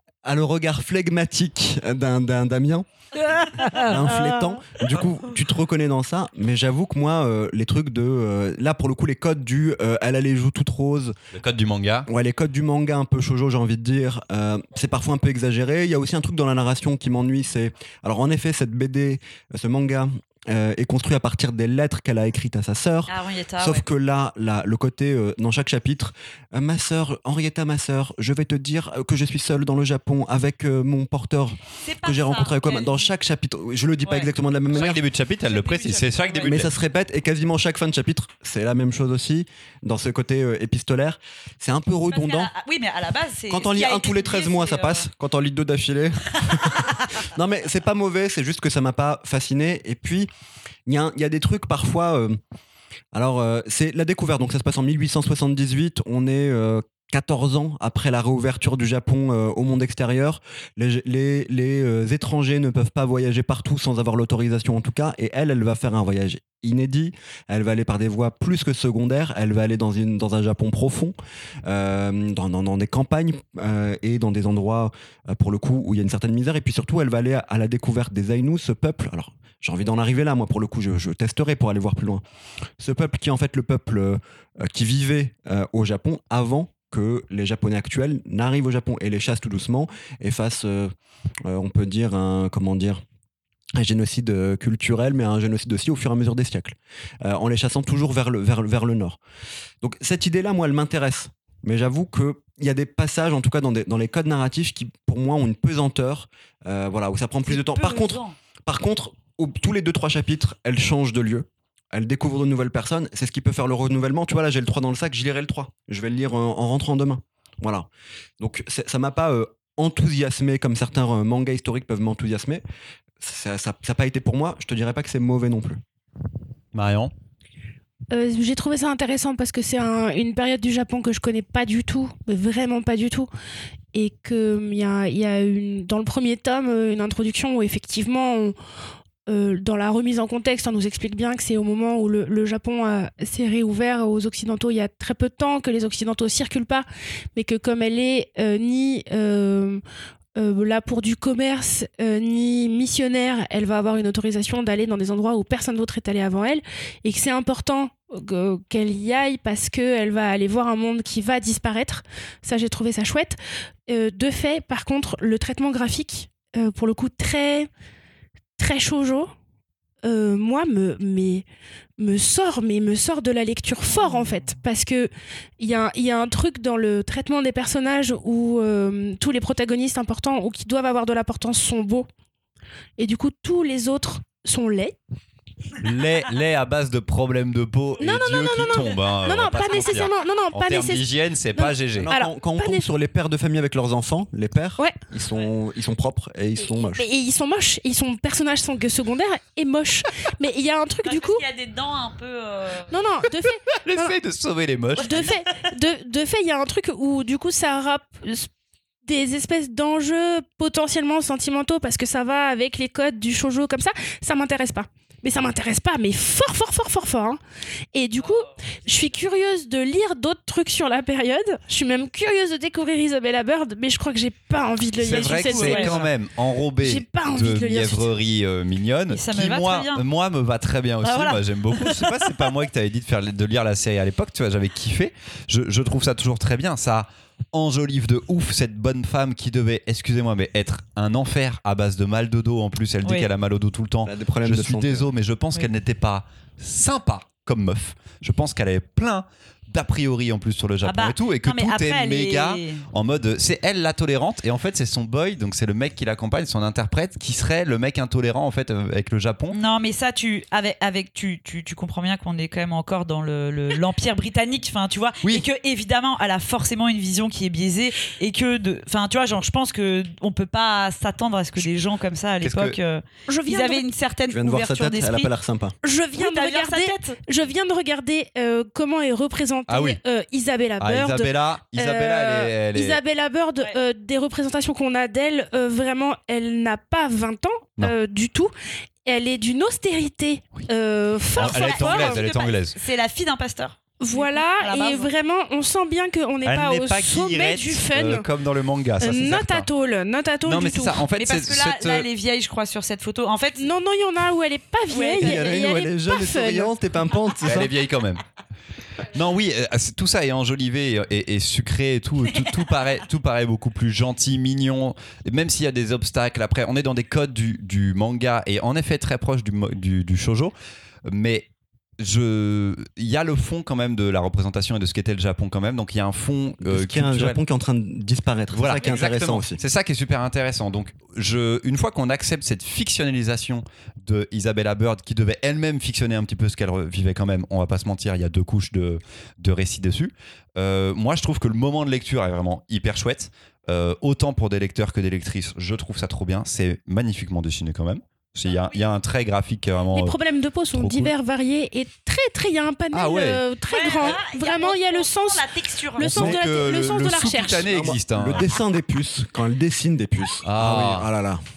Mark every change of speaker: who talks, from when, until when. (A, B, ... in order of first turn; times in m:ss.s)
0:00.2-0:02.9 A
0:03.2-0:04.4 B
0:03.7-0:11.2 A
0:11.3-0:12.1 C
0:12.1-0:35.0 A
0:23.1-0:23.8 B
0:31.8-0:33.1 B
0:34.1-0:36.7 B
0:34.7-0:36.7 C
0:36.4-0:42.5 A
0:42.1-0:45.1 B
0:43.5-0:50.3 A
0:46.5-0:47.2 B
0:50.9-0:52.4 A
0:53.1-1:22.2 A
1:22.8-1:30.9 A
1:31.4-1:33.0 A
1:33.8-1:39.2 A
1:39.8-2:02.6 A
1:47.5-1:48.4 B
2:03.2-2:05.8 A
2:06.7-2:07.1 C
2:08.1-2:13.3 D
2:13.9-2:18.6 D
2:19.3-2:29.8 D
2:30.4-2:43.4 D
2:43.9-2:47.7 D
2:48.6-2:49.3 D
2:50.0-2:51.4 D
2:52.0-3:02.1 D
2:53.8-2:54.5 B
3:03.0-3:05.0 D
3:05.8-3:12.1 C
3:08.0-3:12.9 D
3:12.0-3:17.1 A
3:16.6-3:21.4 D
3:21.0-3:22.9 B
3:22.9-3:24.2 D
3:23.8-3:25.4 C
3:25.0-3:28.5 D
3:25.1-3:25.4 B
3:29.0-3:37.4 D
3:37.9-3:46.1 D
3:45.0-4:19.6 C
3:45.0-3:46.1 B
3:46.8-3:48.1 D
3:49.1-3:50.1 B
3:51.0-3:52.5 B
4:04.0-4:05.1 A
4:10.8-4:12.8 B
4:19.5-4:35.3 B
4:32.4-4:32.8 C
4:33.3-4:33.9 D
4:34.3-4:35.8 A
4:35.8-4:48.5 D
4:36.2-4:37.2 B
4:39.7-4:40.0 C
4:40.8-4:43.0 C
4:49.0-4:52.2 D
4:51.4-4:52.8 C
4:51.4-4:55.1 B
4:54.0-4:58.3 D
4:56.4-4:59.7 C
4:59.0-5:01.0 D
5:00.4-5:02.1 C
5:01.2-5:03.7 B
5:03.6-5:06.7 D
5:04.9-5:05.5 B
5:05.2-5:07.8 A
5:07.4-5:08.2 C
5:09.0-5:27.4 C
5:12.2-5:12.7 B
5:26.6-5:29.6 A
5:28.5-5:50.2 C
5:48.5-5:48.8 B
5:49.9-5:57.7 D
5:50.7-5:51.1 C
5:52.9-5:53.4 C
5:53.7-5:56.3 B
5:56.0-5:58.5 C
5:56.1-5:56.4 A
5:57.6-6:01.4 A
6:00.4-6:01.1 C